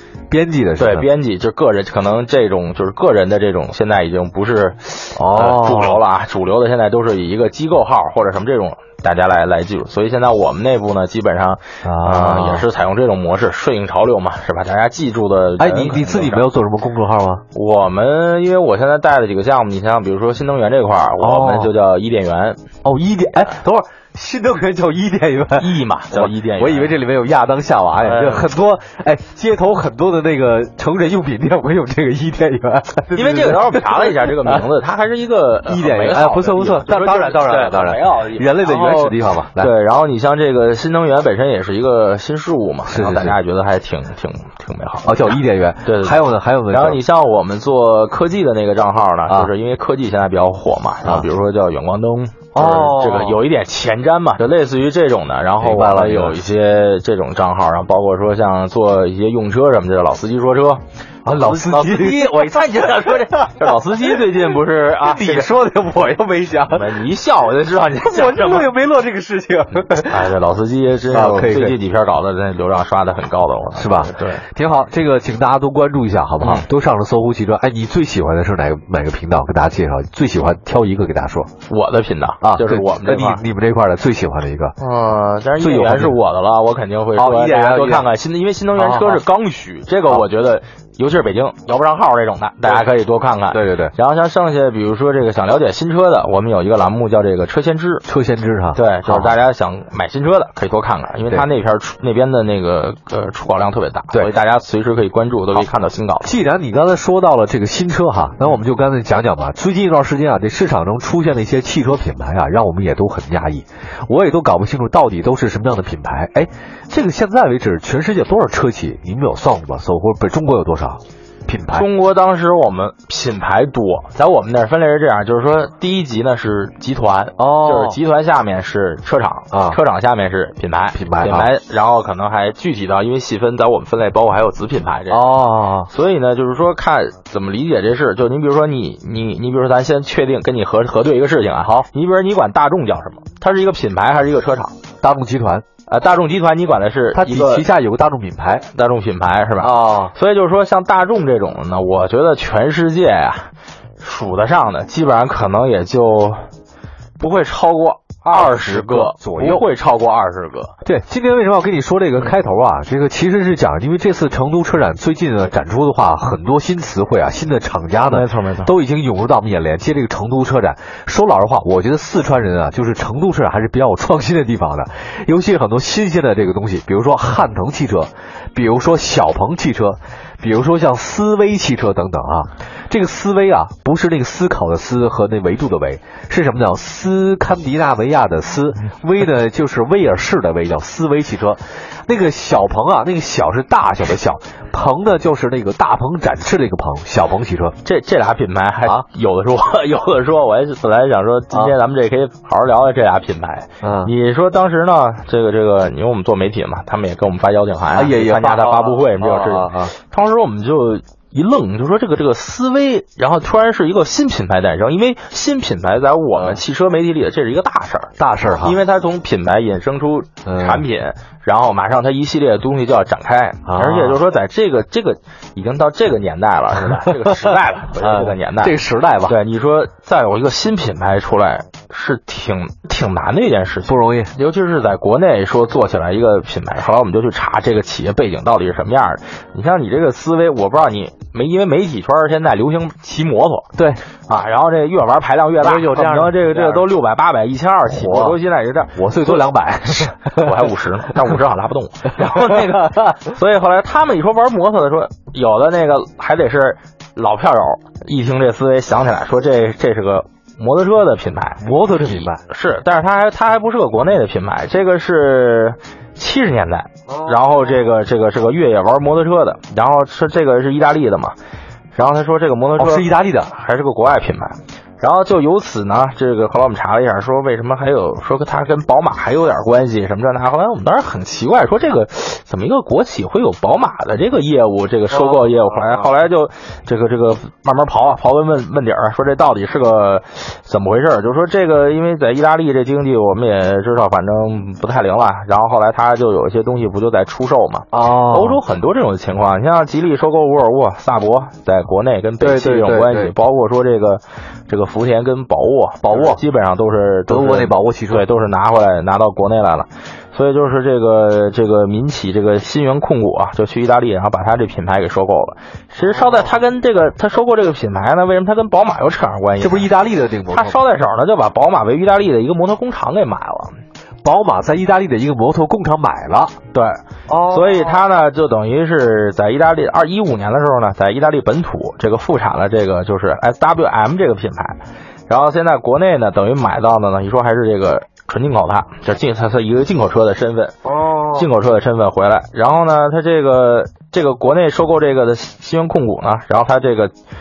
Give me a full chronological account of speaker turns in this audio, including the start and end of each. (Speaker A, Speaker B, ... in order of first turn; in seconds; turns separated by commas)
Speaker A: 0.3-1.1, Speaker B: 0.8-16.4, Speaker A: 5.2-6.0, Speaker A: 11.8-12.6, Speaker A: 15.6-17.4, Speaker B: 17.5-22.6, Speaker A: 21.2-21.7, Speaker A: 22.8-34.6, Speaker B: 25.6-26.9, Speaker B: 28.0-28.5, Speaker B: 33.1-65.5, Speaker A: 35.7-39.7, Speaker A: 42.9-43.4, Speaker A: 45.0-47.0, Speaker A: 52.5-53.4, Speaker A: 55.6-56.4, Speaker A: 61.2-62.7, Speaker A: 65.0-67.0, Speaker B: 66.7-68.7, Speaker A: 68.1-70.3, Speaker B: 70.1-74.4, Speaker A: 71.1-71.8, Speaker A: 73.8-81.5, Speaker B: 76.4-76.7, Speaker B: 81.7-83.4, Speaker A: 82.4-84.8, Speaker B: 84.8-98.0, Speaker A: 85.6-86.2, Speaker A: 87.2-88.1, Speaker A: 88.8-89.2, Speaker A: 93.5-93.9, Speaker A: 98.0-99.3, Speaker B: 98.7-106.3, Speaker A: 105.6-121.9, Speaker B: 121.7-135.2, Speaker A: 127.4-128.0, Speaker A: 129.5-129.8, Speaker A: 130.9-131.5, Speaker A: 135.1-135.9, Speaker B: 135.9-144.8, Speaker A: 145.0-145.6, Speaker B: 145.9-147.7, Speaker A: 147.1-148.7, Speaker B: 148.7-156.4, Speaker A: 149.6-150.1, Speaker B: 157.2-160.7, Speaker A: 158.2-159.6, Speaker A: 160.8-197.8, Speaker B: 168.1-168.7, Speaker B: 197.8-228.8, Speaker A: 203.8-204.1, Speaker A: 207.9-209.9, Speaker A: 218.2-218.8, Speaker A: 220.4-220.8, Speaker A: 223.7-224.2, Speaker A: 228.0-229.4, Speaker B: 229.3-243.7, Speaker A: 233.8-234.3, Speaker A: 243.8-244.0, Speaker B: 244.3-271.4, Speaker A: 245.6-246.9, Speaker A: 247.9-248.4, Speaker A: 248.9-250.6, Speaker A: 252.4-253.1, Speaker A: 261.6-262.4, Speaker A: 267.1-267.4, Speaker B: 271.9-319.9, Speaker A: 272.8-273.5, Speaker A: 285.1-286.1, Speaker A: 297.9-298.6, Speaker A: 302.4-303.3, Speaker A: 306.0-306.4, Speaker A: 307.3-308.2, Speaker A: 319.6-320.8, Speaker B: 320.5-323.8, Speaker A: 324.2-326.5, Speaker B: 326.7-340.8, Speaker A: 327.3-328.0, Speaker A: 340.8-341.5, Speaker B: 341.3-347.1